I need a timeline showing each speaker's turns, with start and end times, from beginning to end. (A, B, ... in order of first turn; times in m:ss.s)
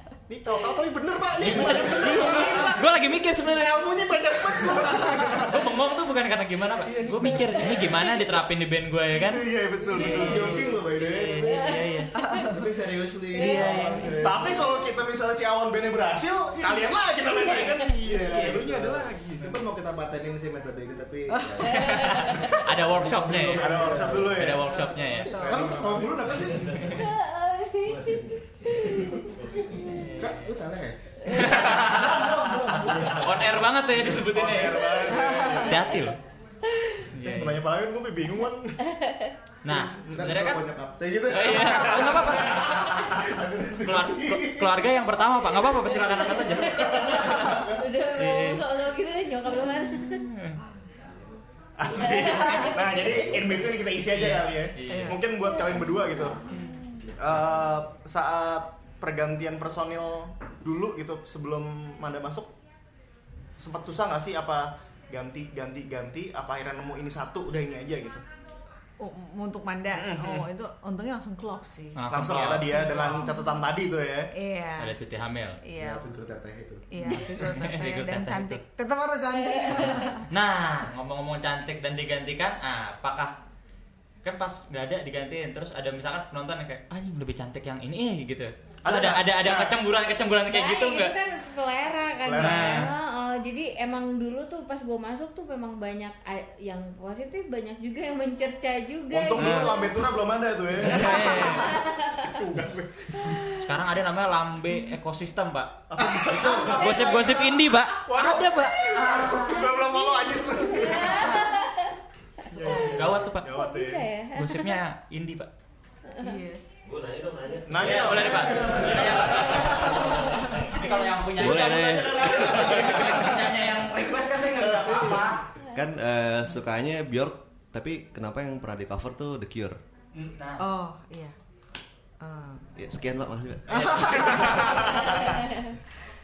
0:00.3-0:02.9 A
0:01.4-0:02.6 B
0:01.9-0:04.1 C
0:03.5-0:05.7 A
0:04.7-0:05.2 B
0:05.3-0:12.1 C
0:06.8-0:08.0 A
0:09.1-0:10.6 A
0:09.9-0:14.8 B
0:11.5-0:12.5 D
0:12.2-0:12.5 E
0:13.3-0:14.3 C
0:13.4-0:13.8 D
0:14.1-0:19.6 A
0:14.4-0:14.7 D
0:17.3-0:17.9 D
0:17.9-0:24.6 B
0:21.3-0:21.6 E
0:21.7-0:22.6 D
0:21.7-0:25.6 C
0:23.4-0:26.4 A
0:24.9-0:25.6 E
0:25.4-0:27.1 B
0:26.9-0:29.3 D
0:27.8-0:33.6 B
0:29.9-0:30.5 C
0:31.3-0:36.2 C
0:31.4-0:33.4 A
0:34.0-0:36.0 A
0:35.1-0:35.6 E
0:36.7-0:37.1 D
0:37.1-0:37.6 C
0:37.2-0:38.8 A
0:38.8-0:39.3 D
0:39.6-0:40.6 C
0:39.7-0:40.3 A
0:40.1-0:45.0 B
0:41.3-0:43.2 C
0:41.6-0:43.2 A
0:43.8-0:47.0 C
0:46.0-0:50.2 D
0:46.4-0:47.5 A
0:46.6-0:47.7 B
0:48.1-0:48.6 C
0:50.0-0:50.5 C
0:51.8-0:56.4 A
0:52.0-0:53.4 D
0:53.0-0:53.4 B
0:54.1-0:55.2 C
0:55.5-0:56.5 D
0:56.5-0:56.8 E
0:57.2-1:02.5 A
1:03.6-1:08.2 A
1:09.0-1:12.0 E
1:09.9-1:10.5 A
1:12.0-1:13.0 C
1:12.1-1:14.3 A
1:12.7-1:13.3 E
1:14.3-1:14.9 E
1:14.8-1:15.6 C
1:15.6-1:16.1 E
1:15.8-1:16.8 B
1:16.9-1:20.2 E
1:17.0-1:18.6 C
1:19.4-1:20.2 D
1:19.8-1:23.3 C
1:24.2-1:31.1 C
1:28.8-1:29.8 A
1:30.5-1:40.0 D
1:32.2-1:32.9 A
1:32.4-1:32.9 C
1:39.1-1:43.4 A
1:39.3-1:39.8 C
1:40.8-1:41.8 C
1:40.9-1:42.4 D
1:43.2-1:43.6 D
1:43.6-1:48.9 C
1:45.9-1:51.4 A
1:46.6-1:47.0 D
1:49.0-1:49.7 E
1:49.2-1:53.0 D
1:52.5-1:54.1 A
1:52.8-1:53.5 C
1:53.5-1:54.8 D
1:54.3-1:55.5 C
1:56.1-1:56.4 D
1:56.2-1:56.6 E
1:56.8-2:03.3 F
1:57.7-1:59.2 A
1:57.8-2:05.5 C
2:00.2-2:00.6 E
2:01.7-2:03.4 A
2:04.7-2:05.2 A
2:05.7-2:09.8 F
2:10.1-2:10.6 C
2:10.6-2:11.4 E
2:12.2-2:12.6 E
2:12.8-2:14.4 F
2:13.7-2:14.8 E
2:14.0-2:15.5 A
2:15.2-2:15.7 D